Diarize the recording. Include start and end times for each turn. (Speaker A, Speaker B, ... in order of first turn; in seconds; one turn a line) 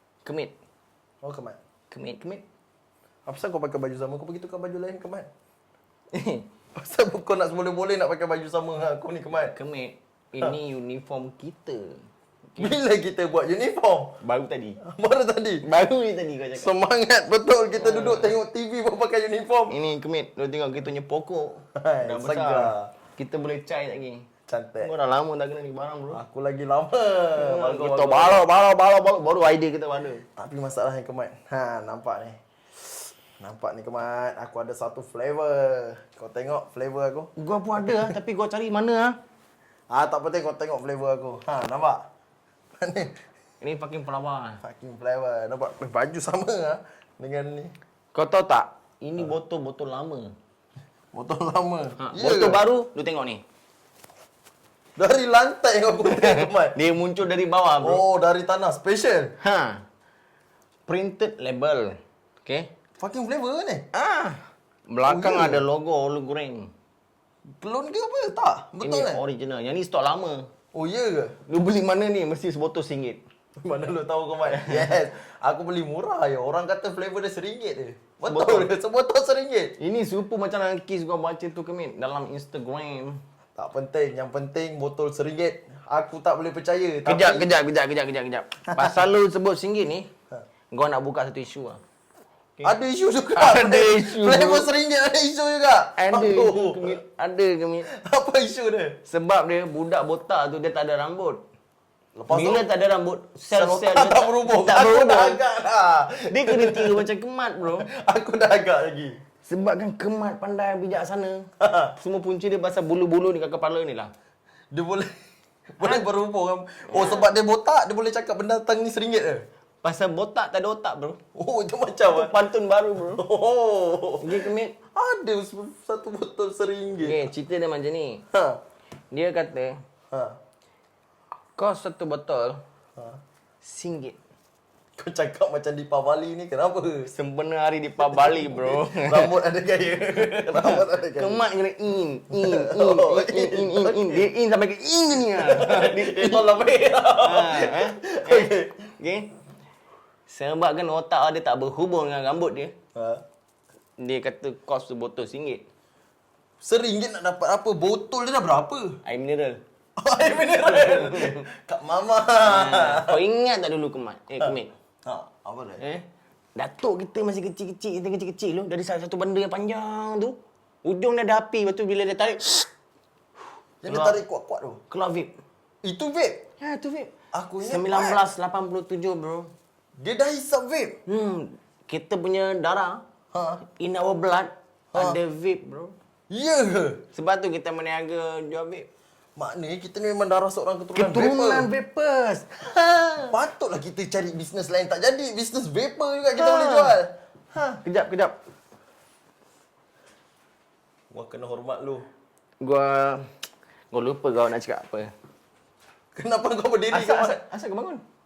Speaker A: 0.2-0.6
Speaker B: 1.2-1.6
Speaker A: 1.9-2.5
Speaker B: 3.3-5.3
Speaker A: 6.1-6.5
Speaker B: 6.8-9.5
Speaker A: 9.4-12.0
Speaker B: 12.6-14.2
Speaker A: 14.2-14.8
Speaker B: 14.8-15.7
Speaker A: 15.6-16.7
Speaker B: 16.6-19.8
Speaker A: 17.8-18.3
Speaker A: 19.7-24.3
Speaker B: 21.8-22.9
Speaker B: 24.5-24.9
Speaker A: 24.8-26.2
Speaker B: 26.1-28.4
Speaker A: 27.3-30.2
Speaker B: 30.4-38.2
Speaker A: 37.4-39.1
Speaker B: 39.9-42.0
Speaker B: 42.8-43.2
Speaker A: 43.6-44.6
Speaker B: 44.6-47.7
Speaker A: 48.1-50.3
Speaker B: 51.1-52.6
Speaker A: 52.0-53.4
Speaker B: 55.0-56.8
Speaker A: 56.0-58.0
Speaker B: 57.8-59.4
Speaker A: 59.4-59.8
Speaker A: 60.9-62.7
Speaker B: 63.0-63.9
Speaker A: 63.9-66.7
Speaker B: 65.0-65.7
Speaker B: 67.6-69.2
Speaker A: 68.8-70.5
Speaker B: 70.8-71.3
Speaker A: 71.5-73.2
Speaker B: 73.6-79.7
Speaker A: 74.5-74.9
Speaker A: 78.2-78.7
Speaker A: 79.8-83.2
Speaker B: 83.6-87.5
Speaker A: 87.0-90.1
Speaker B: 88.7-89.1
Speaker A: 90.7-91.8
Speaker B: 92.6-97.0
Speaker A: 93.3-94.7
Speaker A: 96.0-97.9
Speaker B: 97.9-99.0
Speaker A: 99.0-101.4
Speaker B: 102.2-102.7
Speaker A: 102.3-105.4
Speaker B: 103.5-107.0
Speaker A: 106.3-107.9
Speaker B: 107.8-109.2
Speaker A: 109.5-114.1
Speaker B: 111.6-111.9
Speaker B: 114.7-115.1
Speaker B: 115.8-119.5
Speaker A: 115.8-116.1
Speaker A: 116.9-117.3
Speaker A: 119.8-121.2
Speaker B: 121.3-122.4
Speaker A: 122.1-123.2
Speaker B: 123.0-127.3
Speaker A: 124.2-124.8
Speaker A: 127.0-128.2
Speaker B: 128.3-128.6
Speaker A: 129.1-129.8
Speaker B: 130.1-130.4
Speaker A: 131.6-132.6
Speaker A: 133.6-134.2
Speaker B: 135.0-137.1
Speaker A: 137.1-139.3
Speaker B: 138.0-141.4
Speaker A: 140.1-149.3
Speaker B: 142.3-144.3
Speaker B: 145.2-148.7
Speaker A: 150.3-152.7
Speaker B: 152.9-153.2
Speaker A: 154.0-155.6
Speaker B: 156.6-159.0
Speaker A: 159.1-159.6
Speaker B: 160.0-163.2
Speaker A: 160.5-161.4
Speaker A: 162.4-164.7
Speaker B: 165.1-165.8
Speaker A: 166.6-172.7
Speaker B: 173.8-174.8
Speaker A: 173.8-174.2
Speaker A: 174.9-175.3
Speaker B: 175.8-176.4
Speaker A: 176.6-179.5
Speaker B: 177.3-178.2
Speaker B: 180.0-181.0
Speaker A: 181.1-183.0
Speaker B: 183.3-183.6
Speaker A: 183.8-185.9
Speaker B: 184.9-185.2
Speaker B: 186.3-187.0
Speaker A: 187.1-188.9
Speaker B: 189.4-191.7
Speaker A: 190.9-193.4
Speaker B: 193.3-197.8
Speaker A: 196.4-197.0
Speaker A: 197.8-198.4
Speaker B: 201.1-202.1
Speaker A: 202.6-203.3
Speaker A: 203.9-205.1
Speaker B: 206.2-207.4
Speaker A: 206.9-208.0